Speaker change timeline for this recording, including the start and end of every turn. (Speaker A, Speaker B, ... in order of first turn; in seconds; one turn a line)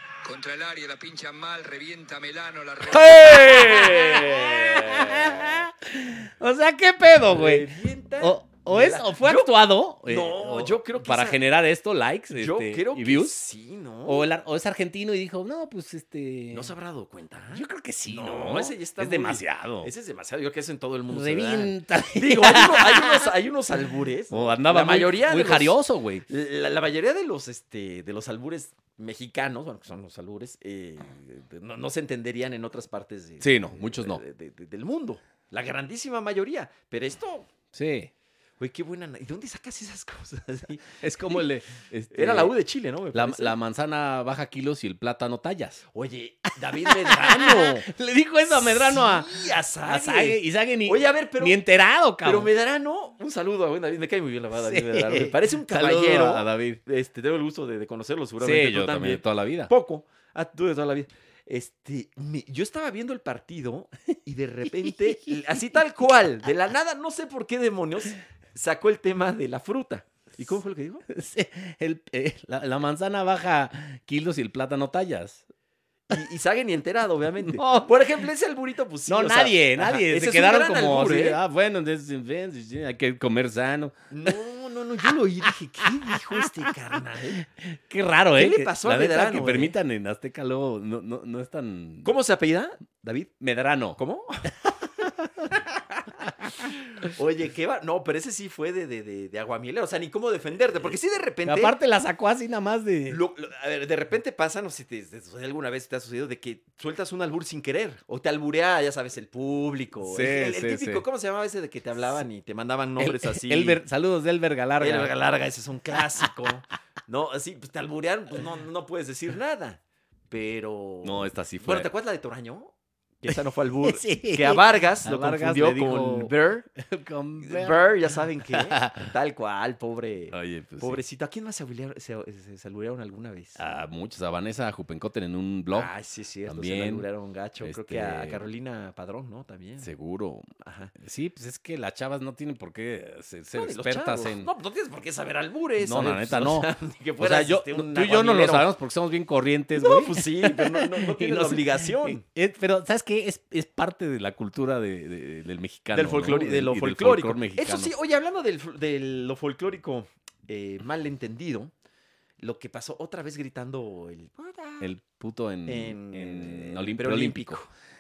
Speaker A: 0.2-3.5
Speaker B: 2.8-13.4
Speaker C: 3.0-5.6
Speaker C: 7.3-9.5
Speaker C: 10.1-11.4
Speaker C: 12.3-14.3
Speaker B: 14.1-16.7
Speaker C: 16.5-37.5
Speaker B: 17.5-19.9
Speaker B: 21.1-23.3
Speaker B: 24.3-26.2
Speaker B: 33.4-34.2
Speaker B: 37.7-38.1
Speaker C: 38.6-41.5
Speaker B: 40.9-42.5
Speaker C: 42.1-43.5
Speaker B: 43.1-45.8
Speaker C: 45.9-47.9
Speaker B: 46.7-52.5
Speaker C: 48.5-51.6
Speaker C: 52.2-71.0
Speaker B: 54.6-56.8
Speaker B: 58.4-59.7
Speaker B: 64.7-65.6
Speaker B: 71.1-75.5
Speaker C: 76.1-81.4
Speaker B: 77.5-78.2
Speaker B: 79.1-84.4
Speaker C: 84.1-87.4
Speaker B: 85.8-92.1
Speaker C: 88.3-89.8
Speaker C: 92.0-93.3
Speaker B: 93.4-94.0
Speaker C: 94.0-94.7
Speaker B: 94.7-95.6
Speaker C: 95.5-96.1
Speaker C: 96.9-101.8
Speaker B: 101.5-103.2
Speaker C: 103.1-113.8
Speaker B: 110.0-111.0
Speaker B: 113.0-115.1
Speaker C: 114.8-119.8
Speaker C: 120.3-126.7
Speaker B: 121.0-121.9
Speaker B: 123.3-127.9
Speaker C: 127.4-133.6
Speaker B: 128.5-129.1
Speaker B: 130.3-131.0
Speaker B: 133.6-135.9
Speaker C: 135.7-139.9
Speaker B: 136.5-137.1
Speaker B: 137.6-138.4
Speaker B: 139.8-144.5
Speaker C: 140.6-140.9
Speaker C: 143.5-148.7
Speaker B: 145.8-157.9
Speaker C: 149.8-152.2
Speaker C: 155.9-161.7
Speaker C: 162.4-164.9
Speaker B: 164.8-167.6
Speaker C: 165.7-167.7